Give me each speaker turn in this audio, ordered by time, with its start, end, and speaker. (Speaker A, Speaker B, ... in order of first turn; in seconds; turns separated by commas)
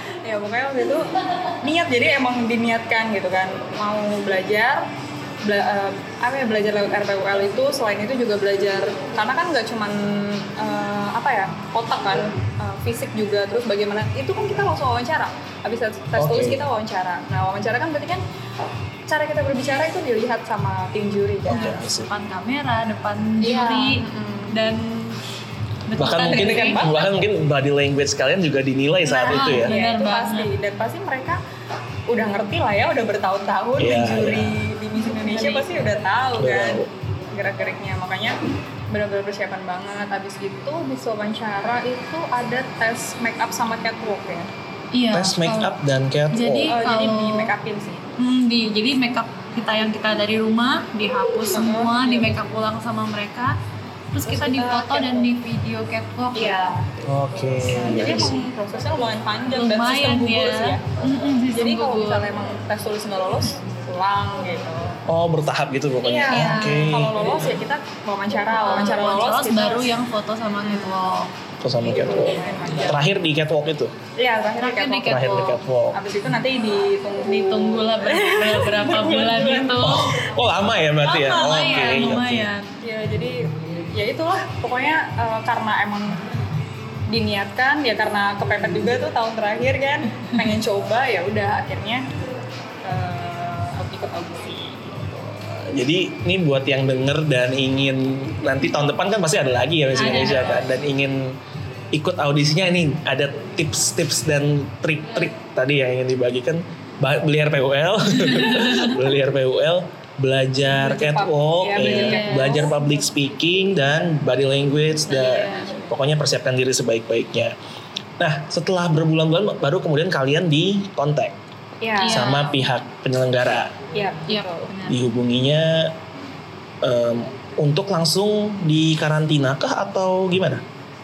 Speaker A: 0.2-1.1, Speaker A: 1.6-4.9, Speaker A: 5.4-18.2, Speaker B: 16.2-16.6, Speaker A: 19.1-21.8, Speaker B: 21.4-22.1, Speaker C: 21.7-25.2, Speaker A: 23.4-24.6, Speaker C: 25.9-27.0, Speaker B: 26.0-29.7, Speaker A: 26.2-27.1, Speaker C: 29.1-30.5, Speaker A: 29.4-31.4, Speaker A: 32.1-38.4, Speaker B: 33.8-34.6, Speaker C: 35.0-35.6, Speaker B: 36.4-36.9, Speaker A: 38.9-44.5, Speaker C: 44.9-45.8, Speaker B: 45.1-46.7, Speaker C: 46.3-47.5, Speaker A: 46.7-48.1, Speaker C: 48.2-53.6, Speaker A: 51.5-52.4, Speaker C: 54.1-56.8, Speaker A: 54.3-55.3, Speaker A: 56.4-56.9, Speaker B: 57.0-58.4, Speaker C: 57.7-58.3, Speaker A: 57.7-60.9, Speaker C: 59.5-62.3, Speaker A: 61.5-65.0, Speaker B: 65.1-67.2, Speaker A: 66.0-69.9, Speaker C: 66.3-67.0, Speaker C: 68.5-71.3, Speaker A: 70.6-71.2, Speaker B: 71.6-74.0, Speaker A: 71.8-73.0, Speaker A: 74.2-75.2, Speaker C: 74.6-75.6, Speaker B: 75.0-76.0, Speaker A: 75.9-80.2, Speaker C: 77.2-80.2, Speaker B: 79.8-82.5, Speaker A: 81.1-82.0, Speaker C: 81.2-82.7, Speaker A: 82.8-86.2, Speaker A: 87.1-92.0, Speaker A: 92.8-94.8, Speaker B: 95.1-101.4, Speaker C: 99.9-100.7, Speaker B: 101.9-117.5, Speaker C: 108.1-109.0, Speaker A: 110.7-112.8, Speaker C: 111.8-112.7, Speaker C: 115.1-115.8, Speaker A: 115.2-115.9, Speaker B: 118.2-121.4, Speaker A: 121.8-122.3, Speaker C: 122.0-122.7, Speaker B: 122.1-123.8, Speaker A: 123.9-124.7, Speaker C: 124.3-125.0, Speaker B: 124.9-126.0, Speaker B: 126.8-130.6